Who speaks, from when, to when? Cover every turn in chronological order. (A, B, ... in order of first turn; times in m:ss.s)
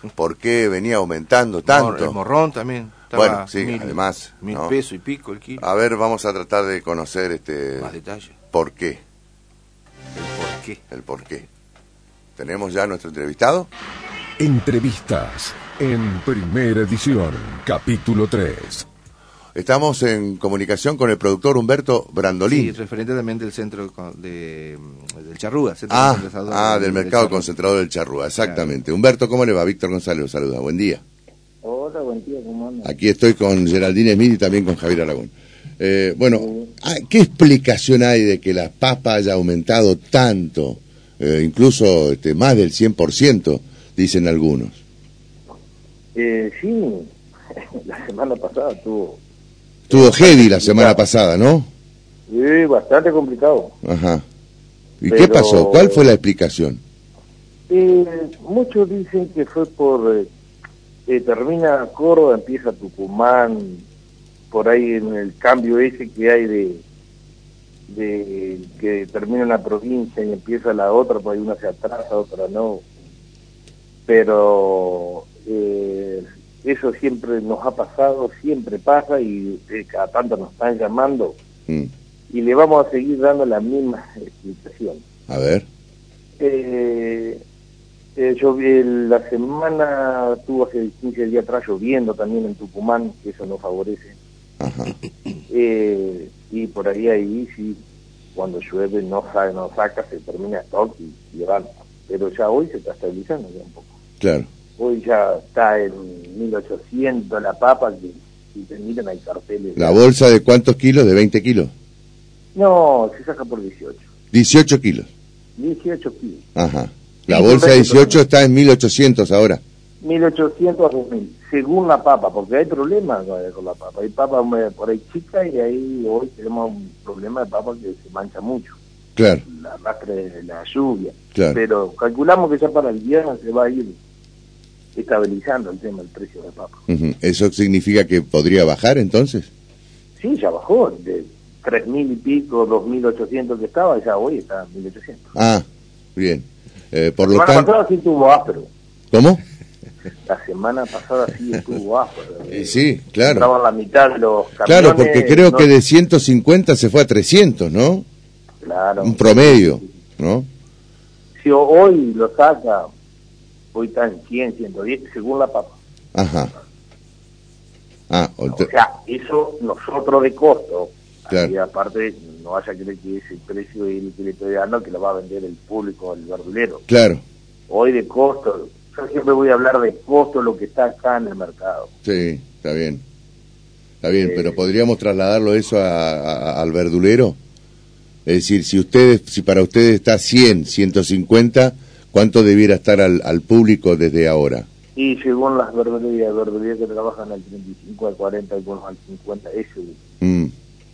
0:00.1-0:02.2 A
0:01.6-0:05.6 B
0:03.1-0:04.8 A
0:05.6-0:07.9 A
0:07.8-0:08.3 B
0:08.5-0:09.0 A
0:10.1-0:10.8 B
0:10.9-0:11.5 A
0:12.4-0:13.7 A
0:14.4-0:18.9 C
0:19.6-0:22.8 A
0:22.5-0:27.5 B
0:25.9-0:31.0 A
0:28.4-0:28.7 B
0:31.6-0:32.9 D
0:32.8-0:44.8 A
0:46.2-0:49.2 D
0:49.9-0:51.7 A
0:49.9-0:51.0 D
0:52.3-0:53.7 D
0:53.8-0:54.2 A
0:55.0-0:56.8 A
0:55.1-0:56.0 D
0:57.7-1:00.3 D
1:01.1-1:03.8 D
1:04.5-1:06.8 D
1:07.9-1:12.8 D
1:14.1-1:21.4 D
1:22.3-1:25.0 D
1:25.3-1:25.6 A
1:26.4-1:27.4 D
1:28.2-1:34.1 D
1:34.6-1:35.0 A
1:35.5-1:37.8 D
1:38.3-1:43.9 D
1:44.2-1:44.5 A
1:44.8-1:50.0 D
1:49.8-1:51.7 A
1:52.5-1:54.0 D
1:54.3-1:55.1 A
1:55.6-1:56.4 D
1:56.5-1:59.6 A
1:57.3-1:58.2 D
2:00.0-2:08.8 D
2:09.2-2:09.4 A
2:09.5-2:13.9 D
2:11.3-2:11.6 A
2:15.0-2:16.8 D
2:16.9-2:19.5 A
2:20.2-2:25.3 D
2:25.3-2:25.6 A
2:26.2-2:27.7 A
2:27.3-2:28.7 D
2:29.1-2:29.4 A
2:30.3-2:35.7 D
2:32.5-2:33.5 A
2:34.6-2:38.0 A
2:38.6-2:39.8 D
2:39.0-2:40.5 A
2:41.4-2:42.9 D
2:43.7-2:45.7 D
2:46.1-2:46.5 A
2:48.1-2:48.7 A
2:48.5-2:56.8 D
2:56.9-2:57.2 A
2:57.7-3:01.9 D
3:02.0-3:03.0 A
3:04.0-3:07.4 A
3:04.2-3:04.5 D
3:08.2-3:14.7 A
3:15.0-3:20.0 D
3:20.2-3:20.5 A